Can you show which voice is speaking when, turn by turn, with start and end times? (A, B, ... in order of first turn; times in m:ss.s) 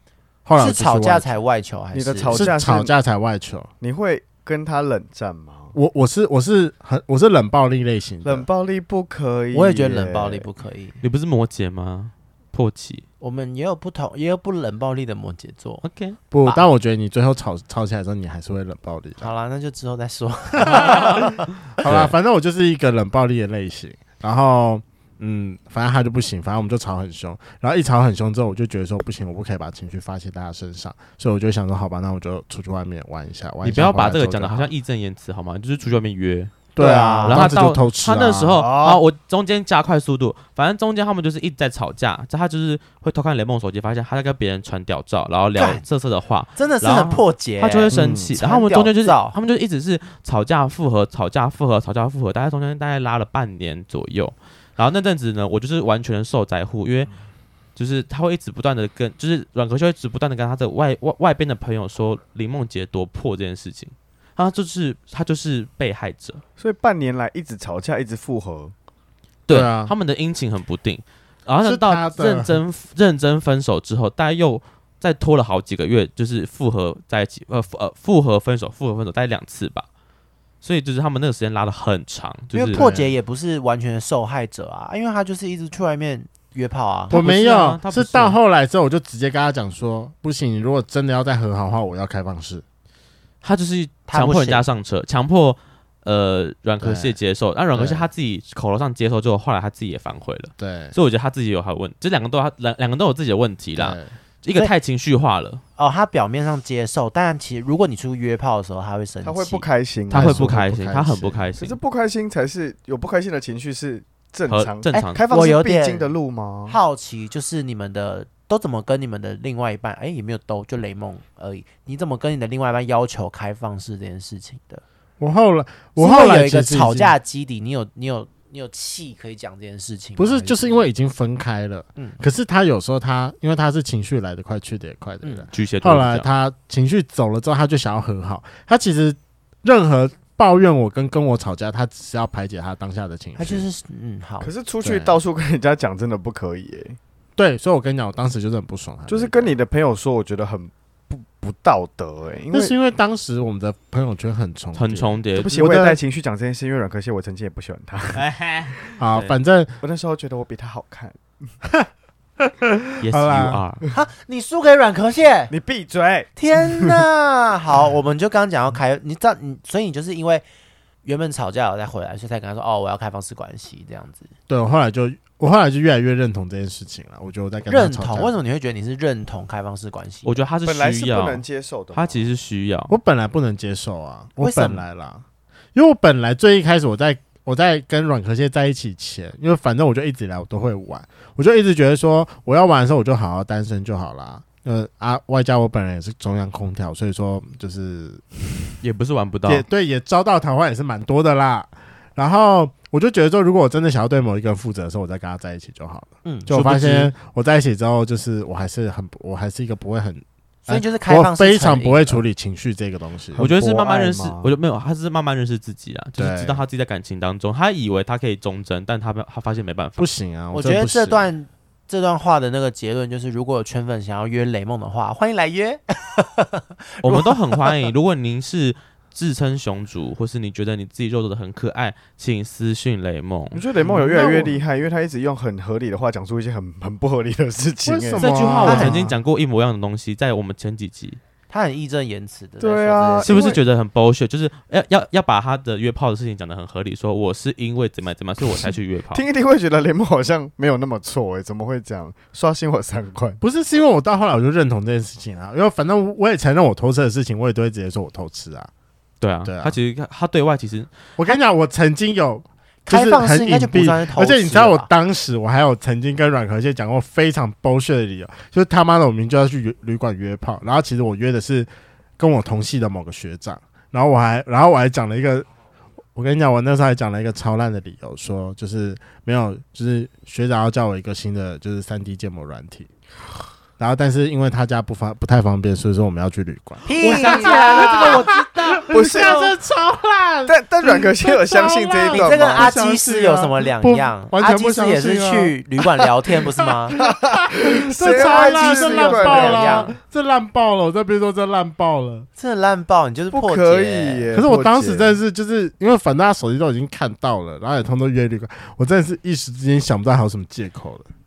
0:00.5-0:01.3 A
0:00.6-0:02.5 B
0:01.9-0:02.9 C
0:02.3-0:03.7 A
0:03.8-0:05.8 C
0:05.8-0:08.5 A
0:08.2-0:10.5 C
0:09.5-0:11.0 B
0:11.0-0:13.0 D
0:13.2-0:15.8 B
0:15.8-0:16.2 D
0:16.3-0:19.3 A
0:19.2-0:21.5 B
0:20.6-0:34.7 A
0:21.8-0:22.1 D
0:33.6-0:36.5 D
0:36.8-0:38.6 A
0:36.8-0:37.5 B
0:37.3-0:57.1 D
0:38.6-0:39.0 C
0:45.6-0:45.8 B
0:46.6-0:49.4 B
0:47.9-0:48.2 C
0:57.8-1:06.4 D
1:06.6-1:08.7 C
1:09.5-1:19.9 D
1:09.5-1:09.9 A
1:11.6-1:12.6 A
1:20.6-1:22.8 D
1:22.5-1:27.2 B
1:22.8-1:23.1 A
1:27.1-1:32.6 A
1:27.1-1:28.4 D
1:33.4-1:45.6 D
1:34.1-1:34.6 B
1:36.8-1:37.2 A
1:37.7-1:38.1 A
1:40.6-1:41.0 A
1:43.8-1:44.1 A
1:45.8-1:49.7 B
1:49.2-1:50.6 C
1:50.1-1:51.8 D
1:50.1-1:51.4 A
1:51.6-1:56.8 C
1:54.5-1:55.2 D
1:54.9-1:56.1 B
1:56.7-2:04.8 B
2:05.2-2:07.2 A
2:06.0-2:10.8 B
2:10.2-2:23.7 A
2:15.5-2:16.3 D
2:23.4-2:24.5 B
2:24.4-2:27.0 C
2:24.8-2:25.2 A
2:27.4-2:29.5 A
2:29.1-2:32.7 C
2:32.5-2:36.0 A
2:34.8-2:35.7 D
2:35.4-2:38.2 C
2:38.2-2:39.4 D
2:39.0-2:39.7 A
2:39.8-2:41.2 C
2:42.4-2:43.6 A
2:43.0-2:43.8 D
2:43.9-2:45.5 B
2:45.5-2:47.0 C
2:46.4-2:50.4 B
2:51.0-2:54.3 B
2:54.5-2:58.3 A
2:57.7-3:00.3 B
3:00.2-3:01.4 D
3:00.6-3:02.3 C
3:01.9-3:03.0 D
3:02.9-3:05.2 A
3:04.4-3:04.8 B
3:05.8-3:18.3 A
3:18.8-3:19.6 D
3:19.5-3:33.4 A
3:26.5-3:27.1 D
3:30.7-3:32.2 B
3:33.3-3:34.5 C
3:33.4-3:40.1 D
3:36.2-3:36.6 A
3:40.0-3:41.3 A
3:40.5-3:47.8 B
3:47.0-3:53.6 D
3:53.5-3:59.0 C
3:54.0-3:54.6 A
3:57.8-3:59.2 A
3:58.2-4:01.2 D
3:58.6-3:59.0 B
4:01.5-4:03.6 B
4:02.6-4:03.6 C
4:03.2-4:09.2 D
4:09.1-4:13.4 C
4:13.4-4:18.7 A
4:19.2-4:20.9 D
4:19.4-4:19.8 A
4:21.2-4:35.5 A
4:22.9-4:24.9 B
4:36.2-4:42.9 A
4:43.8-4:55.6 A
4:46.9-4:49.4 B
4:47.0-4:48.1 C
4:48.9-4:49.5 C
4:50.5-4:52.7 C
4:52.1-4:57.0 B
4:56.7-5:02.3 A
4:56.9-5:00.0 C
4:58.0-5:00.0 B
5:02.4-5:04.3 B
5:03.3-5:05.2 C
5:04.3-5:11.1 A